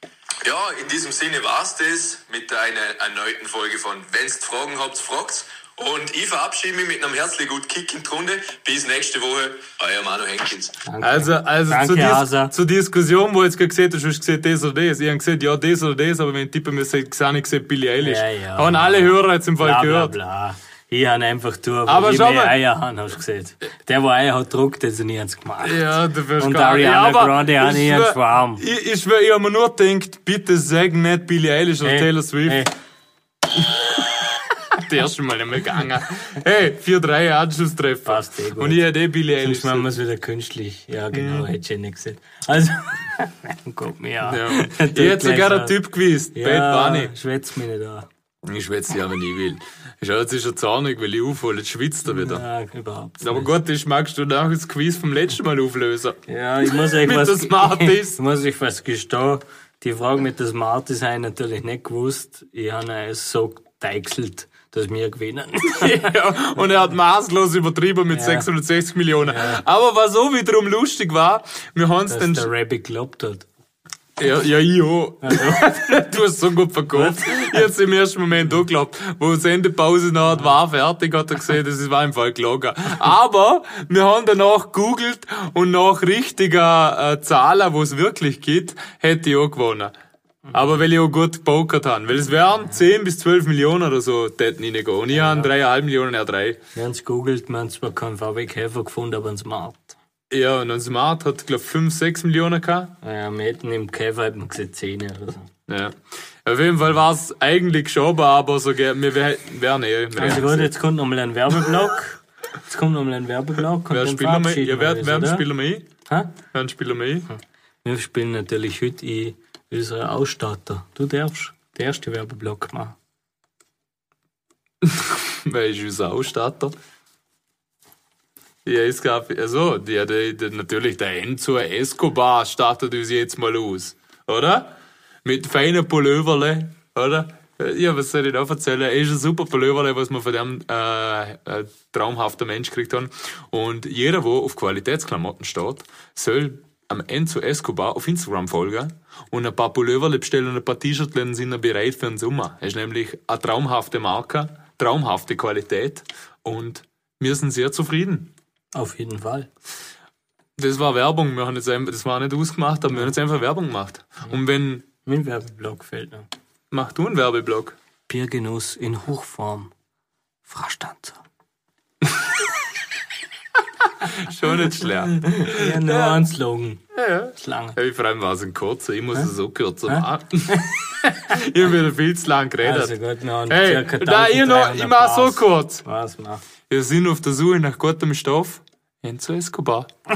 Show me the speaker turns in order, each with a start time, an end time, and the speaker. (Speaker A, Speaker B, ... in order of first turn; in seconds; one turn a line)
Speaker A: 0.4-10.8
Speaker B: 10.9-12.5
Speaker C: 11.0-20.1
Speaker B: 18.0-28.6
Speaker C: 21.9-22.6
Speaker C: 25.6-32.7
Speaker B: 31.8-32.7
Speaker C: 33.6-34.0
Speaker C: 34.7-39.9
Speaker B: 38.1-38.9
Speaker B: 39.4-45.8
Speaker C: 41.1-41.5
Speaker C: 44.2-47.1
Speaker B: 46.3-48.1
Speaker C: 48.4-52.4
Speaker B: 52.1-53.5
Speaker C: 53.2-56.2
Speaker B: 56.3-66.1
Speaker C: 56.7-58.2
Speaker C: 65.7-72.5
Speaker B: 68.1-68.5
Speaker B: 69.3-69.6
Speaker B: 72.1-73.5
Speaker C: 74.2-89.9
Speaker B: 75.2-76.0
Speaker B: 76.9-77.7
Speaker C: 90.5-96.6
Speaker B: 95.1-95.5
Speaker B: 96.8-100.0
Speaker C: 100.3-102.9
Speaker B: 103.0-105.5
Speaker C: 105.7-110.7
Speaker B: 110.2-115.5
Speaker C: 113.9-115.9
Speaker B: 116.1-116.3
Speaker C: 116.5-117.3
Speaker B: 117.3-123.0
Speaker C: 124.8-126.8
Speaker C: 128.7-158.3
Speaker B: 158.8-159.5
Speaker C: 160.6-164.9
Speaker B: 165.1-166.3
Speaker C: 166.7-167.8
Speaker B: 168.1-169.7
Speaker B: 170.4-171.2
Speaker C: 174.0-176.2
Speaker B: 175.0-176.8
Speaker C: 176.9-182.9
Speaker B: 177.4-177.8
Speaker B: 179.9-180.8
Speaker B: 182.6-186.4
Speaker C: 183.5-185.8
Speaker C: 186.7-189.9